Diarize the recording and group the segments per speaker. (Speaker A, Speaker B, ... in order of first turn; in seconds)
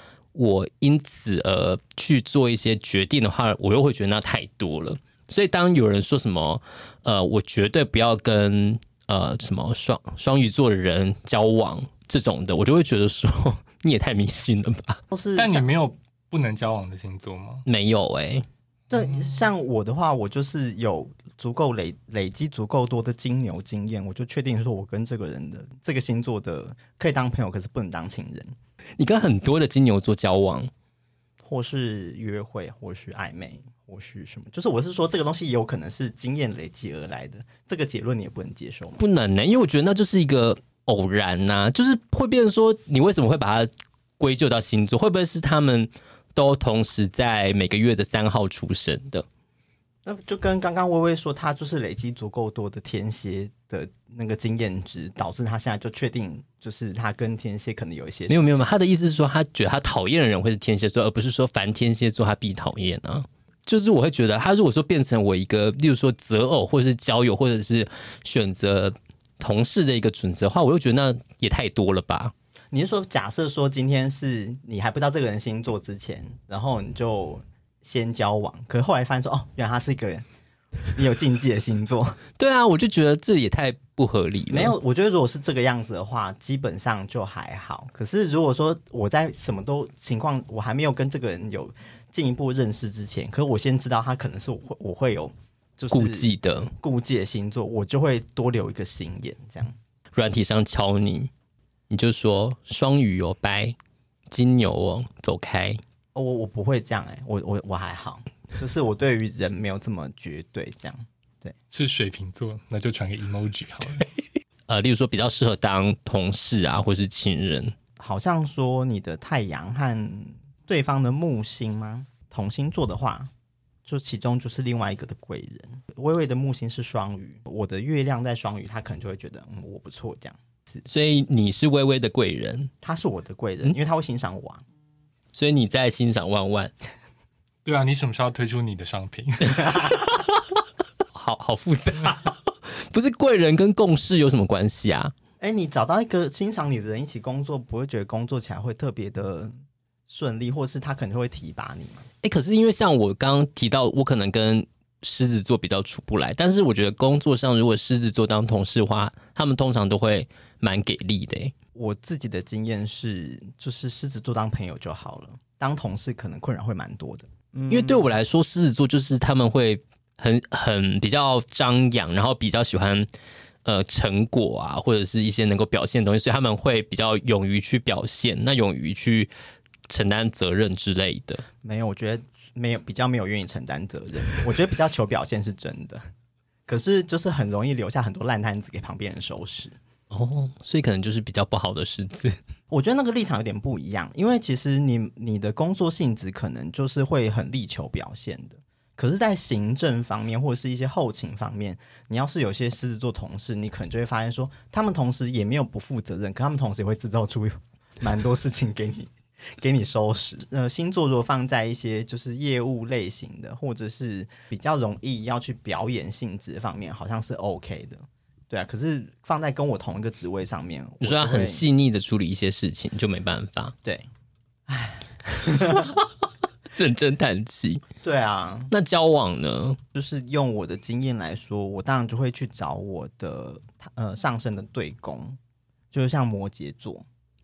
Speaker A: 0.3-15.0, 17.6-18.5, 29.0-30.7, 39.0-49.3, 58.3-72.3, 82.4-84.8, 95.9-96.7, 100.1-101.3, 101.9-103.8, 104.3-105.8, 114.7-117.7, 130.8-132.7, 135.3-136.7, 139.7-140.3, 141.2-145.1, 152.2-161.5, 167.7-173.1, 173.7-179.3, 179.9-181.4, 190.1-192.4, 221.0-223.8, 226.7-227.8, 228.7-229.8
Speaker B: 15.1-15.7, 18.9-28.6, 31.4-39.0, 50.0-58.7, 72.7-80.3, 80.9-82.2, 84.5-99.8, 106.2-111.5, 118.0-123.3, 123.8-130.4, 132.8-134.6, 145.4-149.5, 150.1-152.1, 161.8-168.1, 181.6-186.0, 186.7-189.8, 192.7-221.7, 224.7-226.0, 228.0-228.7, 229.9-235.4, 235.9-237.1
Speaker C: 15.4-17.6, 111.7-114.1, 137.7-139.9